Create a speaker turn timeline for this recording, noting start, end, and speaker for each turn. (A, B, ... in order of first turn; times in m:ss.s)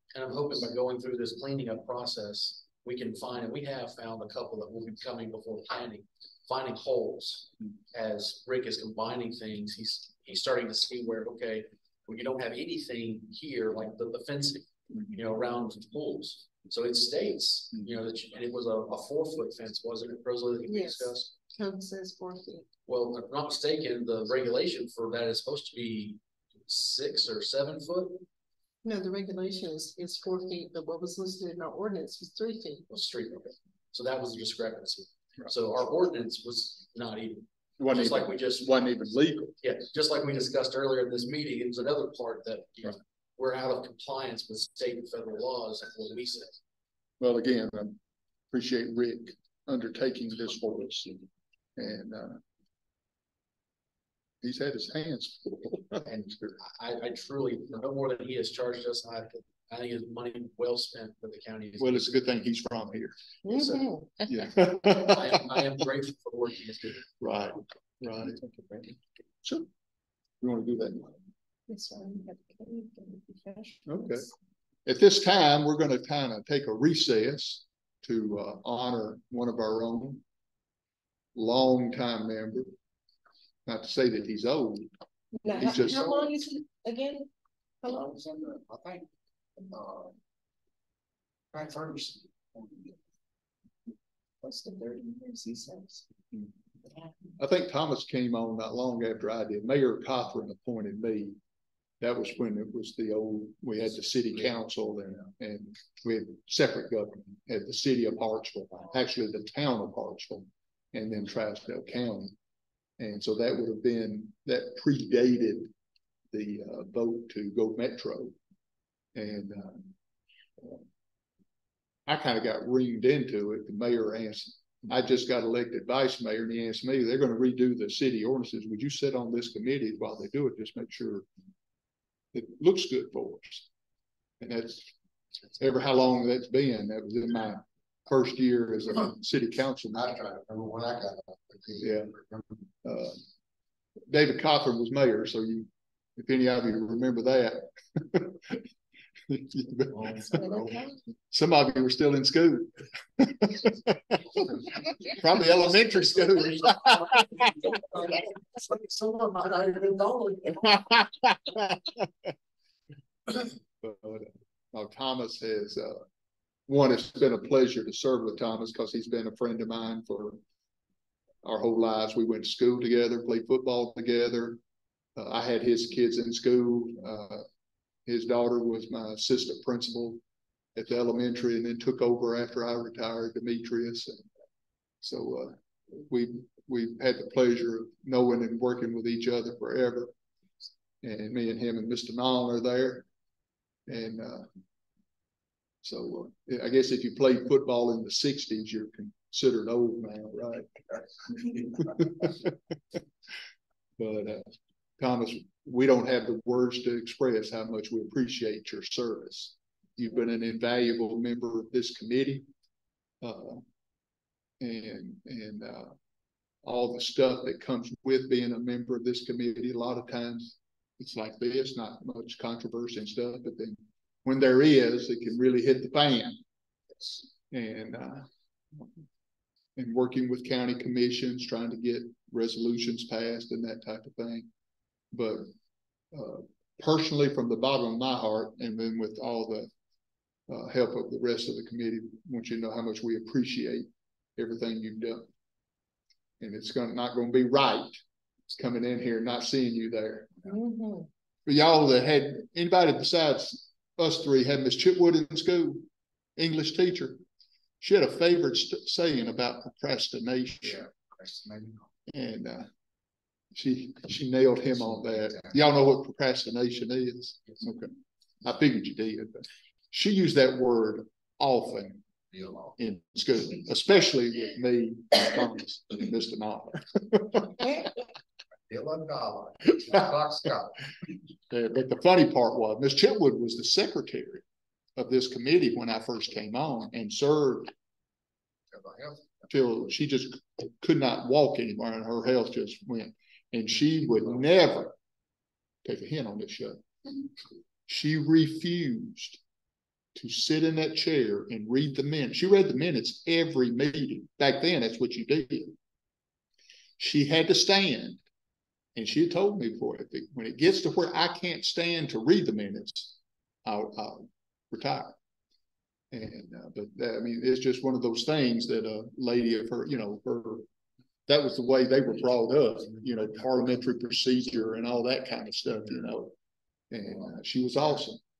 0:00.1-0:21.3 A
0:20.7-0:22.7 B
0:22.9-0:28.2 A
0:28.8-0:32.8 B
0:32.9-0:38.8 A
0:37.8-0:39.6 C
0:39.6-0:46.6 A
0:47.2-0:48.0 C
0:48.5-0:51.2 C
0:51.8-0:52.4 C
0:54.4-0:56.5 C
0:56.1-1:02.2 A
1:01.8-1:03.1 C
1:03.4-1:04.1 B
1:03.5-1:03.8 A
1:04.2-1:05.8 C
1:05.0-1:07.0 A
1:07.2-1:09.7 C
1:10.4-1:11.2 C
1:11.7-1:14.3 B
1:13.8-1:14.3 C
1:14.8-1:20.2 C
1:21.3-1:22.7 C
1:23.6-1:24.9 C
1:25.4-1:27.3 B
1:25.6-1:26.1 C
1:27.8-1:28.1 B
1:28.2-1:29.0 D
1:29.7-1:30.1 D
1:31.5-1:32.2 D
1:34.4-1:36.0 B
1:37.4-1:41.4 C
1:42.0-1:52.3 C
1:53.0-1:55.7 C
1:56.3-1:58.3 C
1:59.1-1:59.9 C
2:02.1-2:11.2 C
2:12.3-2:13.7 C
2:14.4-2:14.9 C
2:15.6-2:20.1 C
2:19.9-2:22.4 D
2:21.8-2:22.1 C
2:22.8-2:23.2 C
2:24.1-2:28.6 C
2:29.3-2:30.5 C
2:29.9-2:30.8 D
2:30.4-2:31.0 B
2:31.3-2:37.7 C
2:37.7-2:40.6 D
2:40.5-2:42.3 C
2:43.8-2:46.0 C
2:46.7-2:50.4 C
2:51.4-2:54.6 C
2:55.2-2:57.4 C
2:58.0-3:00.2 C
3:00.8-3:04.2 C
3:05.0-3:10.1 C
3:11.0-3:13.0 C
3:13.9-3:14.5 C
3:15.8-3:20.7 C
3:21.3-3:22.6 C
3:24.0-3:32.5 C
3:33.2-3:33.6 C
3:34.6-3:35.9 C
3:36.6-3:46.4 C
3:47.5-3:48.9 C
3:49.8-3:54.5 C
3:55.1-3:55.5 C
3:56.1-3:59.7 C
4:00.5-4:05.3 C
4:06.4-4:08.0 C
4:08.5-4:10.3 C
4:10.4-4:11.1 B
4:11.4-4:15.8 C
4:16.4-4:17.2 C
4:17.8-4:20.9 C
4:21.1-4:21.8 D
4:22.1-4:22.7 C
4:23.5-4:27.9 C
4:28.4-4:32.0 C
4:32.3-4:32.7 D
4:32.8-4:37.7 C
4:38.7-4:40.8 D
4:41.5-4:44.4 C
4:45.0-4:47.7 C
4:48.7-4:49.3 D
4:49.5-4:54.9 C
4:55.8-4:56.8 C
4:57.9-4:59.4 C
5:00.1-5:05.7 C
5:07.0-5:08.2 C
5:09.0-5:15.1 C
5:16.1-5:20.6 C
5:21.3-5:26.3 C
5:26.9-5:28.2 C